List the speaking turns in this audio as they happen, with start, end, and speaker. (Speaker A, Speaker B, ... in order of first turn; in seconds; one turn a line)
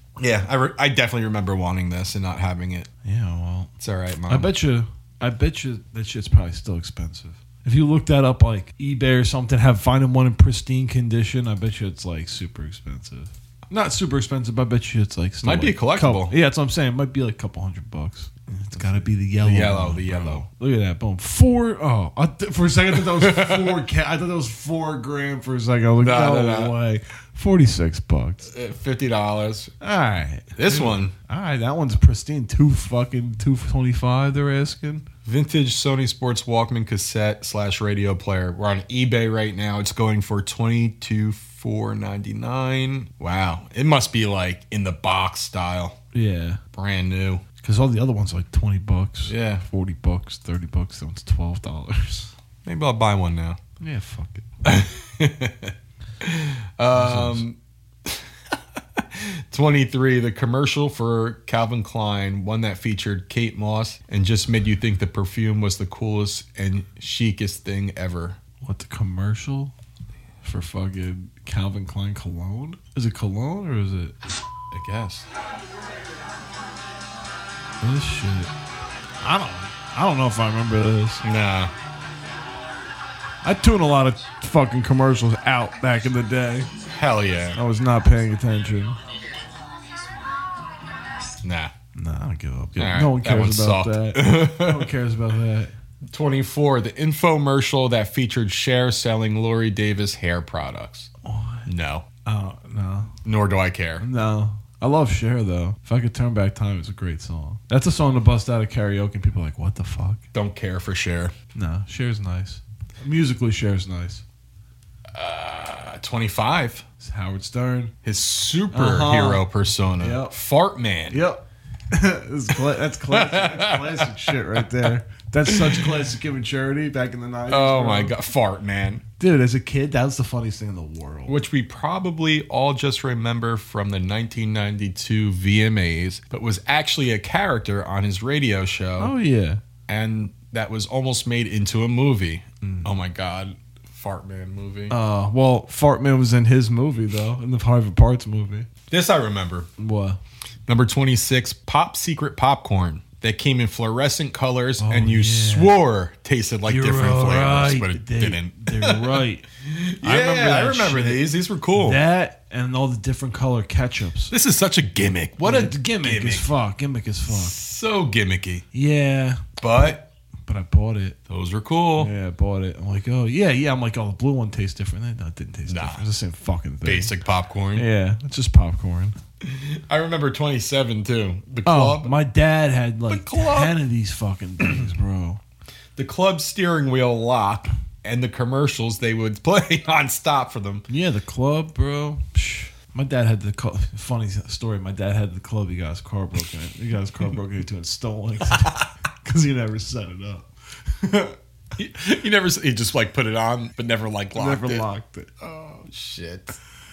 Speaker A: 0.2-2.9
Speaker B: 3.0-3.7
Speaker A: 3.8-4.5
Speaker B: 4.3-28.5
Speaker A: 15.4-16.3
Speaker A: 19.4-20.4
Speaker A: 22.9-23.9
Speaker A: 26.0-26.8
Speaker A: 28.5-29.7
Speaker B: 29.8-35.1
Speaker A: 30.6-31.1
Speaker A: 35.2-46.0
Speaker B: 46.1-46.6
Speaker A: 46.7-47.4
Speaker B: 47.6-52.3
Speaker A: 49.3-49.6
Speaker A: 52.6-53.6
Speaker B: 53.8-54.5
Speaker A: 54.6-58.3
Speaker B: 56.9-57.4
Speaker A: 59.0-68.4
Speaker B: 68.6-69.7
Speaker B: 70.4-74.2
Speaker A: 74.7-75.3
Speaker B: 77.8-78.5
Speaker B: 79.2-81.2
Speaker A: 81.2-81.7
Speaker B: 83.4-86.7
Speaker A: 87.0-87.6
Speaker B: 87.5-89.0
Speaker A: 91.4-91.7
Speaker B: 92.0-95.7
Speaker A: 92.8-94.9
Speaker A: 96.1-101.1
Speaker B: 101.2-101.7
Speaker A: 101.7-102.0
Speaker B: 102.2-103.1
Speaker A: 103.2-104.1
Speaker B: 104.0-110.2
Speaker A: 110.3-111.3
Speaker B: 111.5-114.2
Speaker A: 115.1-116.8
Speaker B: 117.0-117.9
Speaker A: 118.0-121.2
Speaker B: 118.7-119.5
Speaker B: 120.0-120.3
Speaker B: 121.1-128.2
Speaker A: 122.7-124.9
Speaker A: 125.5-126.0
Speaker A: 127.5-129.0
Speaker B: 129.2-131.4
Speaker A: 131.3-139.2
Speaker B: 139.0-139.6
Speaker A: 139.9-145.0
Speaker B: 142.6-142.9
Speaker B: 144.9-148.7
Speaker A: 148.9-149.7
Speaker B: 149.8-150.2
Speaker A: 150.7-162.0
Speaker B: 154.8-155.8
Speaker B: 156.7-159.5
Speaker B: 160.0-164.3
Speaker A: 164.3-166.5
Speaker B: 165.4-167.6
Speaker A: 167.3-168.7
Speaker B: 168.7-169.4
Speaker A: 169.6-170.0
Speaker B: 170.5-171.2
Speaker A: 171.3-172.1
Speaker B: 172.0-177.2
Speaker A: 175.7-176.0
Speaker A: 176.8-177.9
Speaker B: 177.8-179.2
Speaker A: 179.4-182.2
Speaker B: 181.7-185.4
Speaker A: 183.1-183.8
Speaker A: 186.0-190.9
Speaker B: 190.9-201.4
Speaker A: 198.5-198.8
Speaker A: 201.8-204.8
Speaker B: 204.3-205.3
Speaker A: 205.4-206.6